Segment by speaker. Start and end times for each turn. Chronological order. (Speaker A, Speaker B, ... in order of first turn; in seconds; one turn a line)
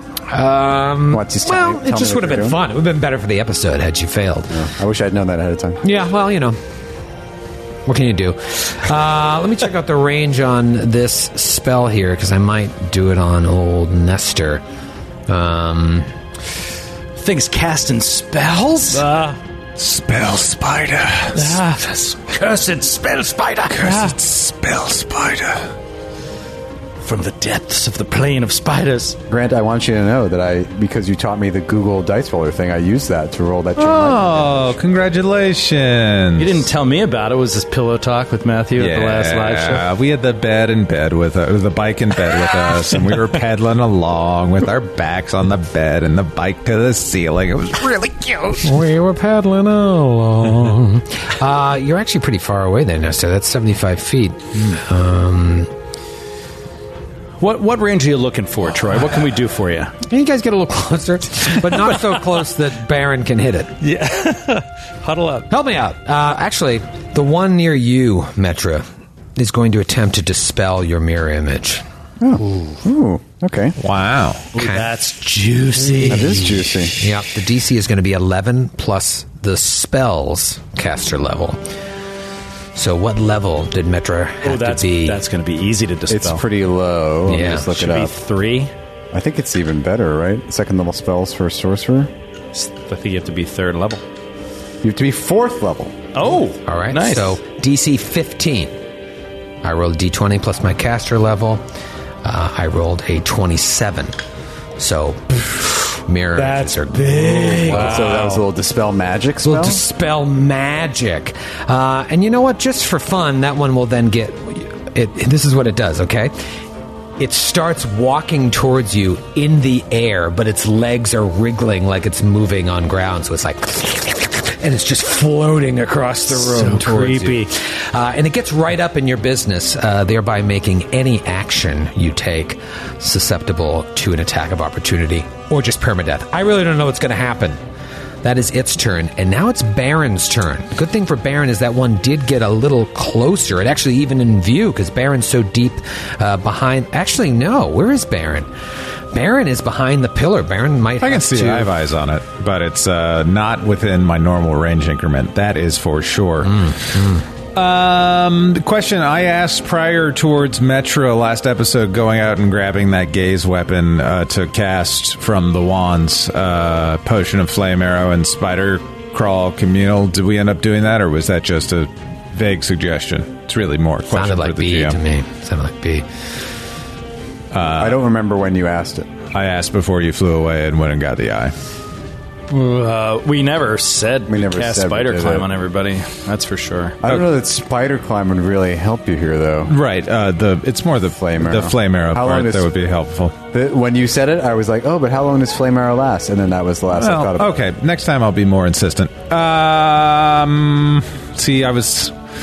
Speaker A: 0.3-4.5
Speaker B: 1.1-2.6
Speaker B: 4.5-5.8
Speaker A: 5.8-6.6
Speaker A: 7.8-14.6
Speaker A: 15.3-16.1
Speaker C: 17.1-19.1
Speaker D: 18.9-19.4
Speaker E: 19.8-21.6
Speaker D: 21.4-21.8
Speaker C: 21.4-24.0
Speaker E: 23.8-25.7
Speaker D: 23.8-24.1
Speaker C: 27.0-29.2
Speaker B: 29.3-34.7
Speaker E: 33.8-36.6
Speaker C: 36.4-39.8
Speaker E: 38.8-48.8
Speaker A: 48.6-55.7
Speaker C: 57.4-59.9
Speaker A: 60.0-63.7
Speaker D: 63.8-65.5
Speaker A: 65.5-68.8
Speaker A: 69.3-71.8
Speaker B: 72.2-73.8
Speaker E: 73.8-74.5
Speaker C: 74.5-76.7
Speaker A: 74.5-74.8
Speaker B: 76.1-77.0
Speaker A: 76.9-81.6
Speaker A: 82.7-85.2
Speaker C: 84.4-86.4
Speaker B: 86.1-88.1
Speaker A: 87.3-87.7
Speaker C: 87.7-88.7
Speaker B: 89.1-92.1
Speaker C: 92.5-94.0
Speaker B: 94.8-96.0
Speaker C: 96.1-97.4
Speaker A: 96.7-98.7
Speaker A: 99.6-101.6
Speaker A: 102.2-104.2
Speaker A: 104.8-108.0
Speaker D: 106.5-108.4
Speaker B: 107.6-109.8
Speaker A: 109.4-116.3
Speaker A: 117.2-137.6
Speaker C: 126.3-127.5
Speaker A: 138.2-148.5
Speaker A: 149.1-151.7
Speaker E: 151.0-156.9
Speaker A: 156.7-157.2
Speaker E: 157.5-175.0
Speaker A: 174.1-176.1
Speaker E: 177.5-178.0
Speaker B: 177.8-179.1
Speaker E: 179.3-181.5
Speaker C: 182.5-187.0
Speaker B: 184.3-185.5
Speaker B: 187.0-189.7
Speaker E: 187.0-187.3
Speaker E: 189.7-193.3
Speaker B: 191.2-192.7
Speaker B: 193.5-197.6
Speaker E: 196.9-202.1